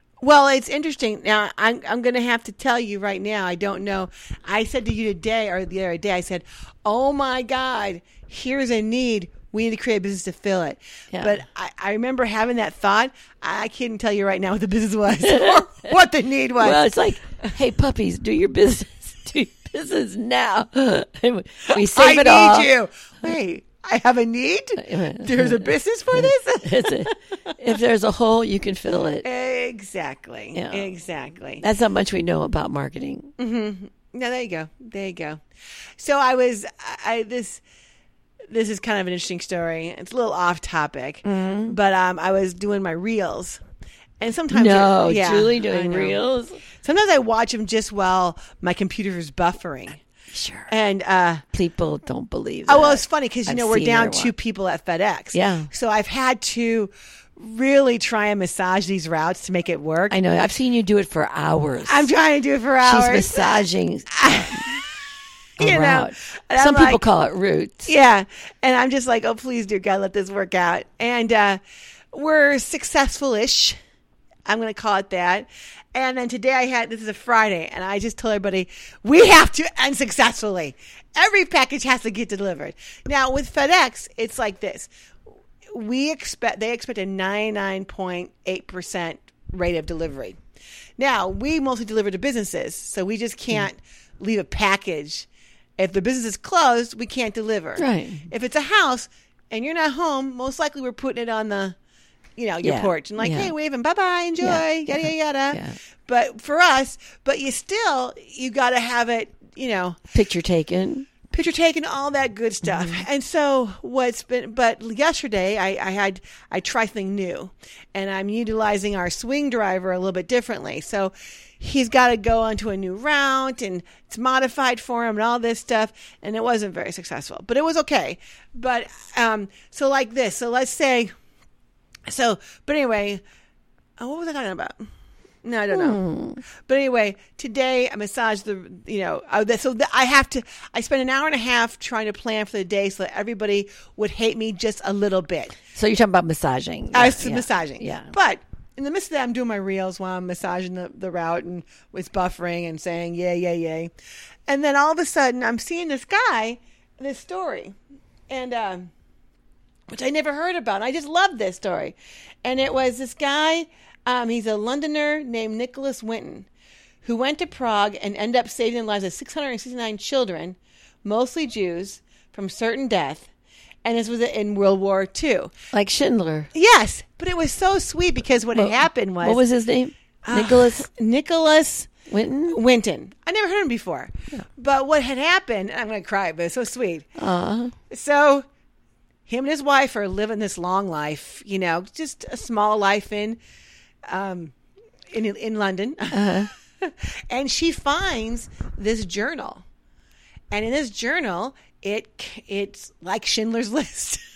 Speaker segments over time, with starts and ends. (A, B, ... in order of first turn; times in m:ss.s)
0:00.2-0:16.9 A
0:11.1-0:11.4 B
0:15.2-0:15.6 B
0:16.6-0:22.7 B
0:21.7-0:27.1 A
0:24.8-0:29.2 B
0:29.2-0:31.6 A
0:30.5-0:30.9 B
0:31.6-0:33.3 B
0:33.4-0:35.4 A
0:36.0-0:37.6 A
0:38.5-0:43.6 A
0:41.2-0:41.8 B
0:44.2-0:50.0 A
0:44.5-0:46.6 B
0:50.3-0:50.7 B
0:50.7-0:51.4 A
0:51.5-0:54.3 B
0:52.7-1:00.2 A
0:55.3-0:55.7 B
1:00.1-1:02.1 B
1:01.8-1:04.9 A
1:02.8-1:04.8 B
1:05.6-1:07.0 A
1:05.6-1:07.9 B
1:07.9-1:11.6 A
1:12.1-1:13.8 A
1:14.4-1:24.9 A
1:25.7-1:30.4 A
1:31.0-1:35.3 A
1:35.8-1:41.8 A
1:37.8-1:38.3 B
1:42.4-1:50.0 A
1:42.6-1:43.5 B
1:44.4-1:45.8 B
1:50.1-1:51.1 B
1:51.3-2:11.1 A
1:52.7-1:53.0 B
2:12.0-2:13.2 A
2:14.0-2:14.9 A
2:15.4-2:16.0 A
2:15.7-2:16.4 B
2:16.6-2:25.6 A
2:25.7-2:28.1 B
2:26.9-2:33.9 A
2:34.5-2:37.8 A
2:38.3-2:38.9 A
2:39.9-2:46.5 A
2:47.0-2:53.3 A
2:53.8-2:55.5 A
2:55.7-2:56.5 B
2:56.5-2:59.4 A
2:58.5-3:00.9 B
3:00.2-3:01.9 A
3:02.1-3:02.6 B
3:02.5-3:07.1 A
3:07.2-3:07.7 B
3:07.9-3:08.4 A
3:09.3-3:13.4 A
3:14.1-3:14.6 A
3:15.1-3:19.6 A
3:16.1-3:16.5 B
3:20.5-3:24.2 A